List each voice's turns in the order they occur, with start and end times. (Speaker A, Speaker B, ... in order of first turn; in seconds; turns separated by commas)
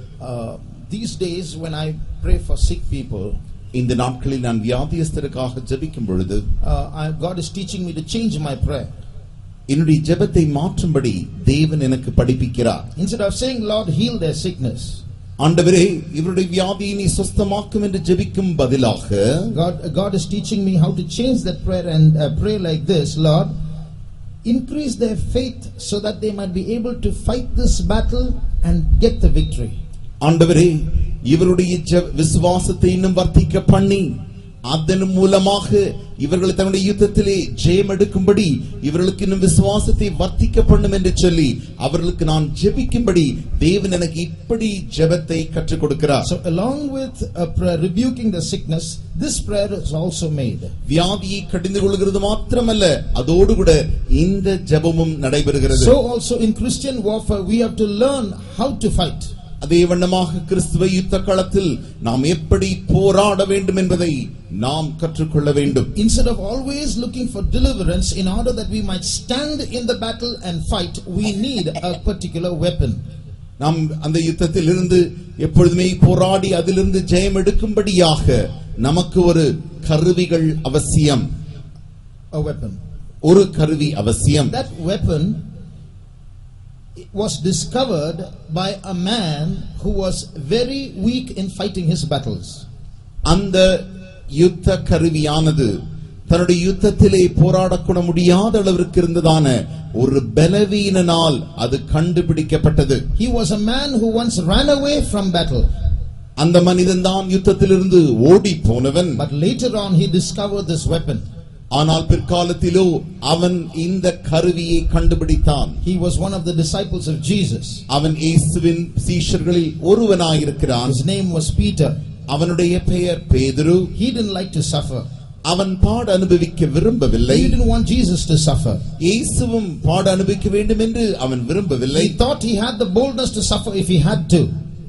Speaker A: 0.2-3.4, Speaker B: 3.7-6.4, Speaker A: 6.6-8.9, Speaker B: 9.7-12.9, Speaker A: 12.9-15.0, Speaker B: 15.4-19.5, Speaker A: 19.5-23.5, Speaker A: 24.4-29.8, Speaker B: 30.2-34.1, Speaker B: 34.6-46.3, Speaker A: 46.2-50.7, Speaker B: 50.9-55.9, Speaker A: 55.7-59.3, Speaker B: 59.6-65.9, Speaker A: 65.7-73.0, Speaker B: 73.6-81.3, Speaker A: 82.3-82.8, Speaker B: 83.2-84.5, Speaker A: 84.5-85.4, Speaker A: 87.1-92.6, Speaker B: 93.2-93.8, Speaker B: 94.3-95.8, Speaker B: 96.3-103.0, Speaker A: 103.2-105.7, Speaker B: 106.4-109.2, Speaker A: 109.2-111.2, Speaker B: 111.7-115.8, Speaker A: 115.8-117.8, Speaker B: 117.9-121.0, Speaker A: 120.8-122.0, Speaker B: 122.3-123.9, Speaker A: 123.9-125.0, Speaker B: 125.5-127.5, Speaker A: 127.2-128.8, Speaker B: 129.0-132.2, Speaker A: 131.9-134.5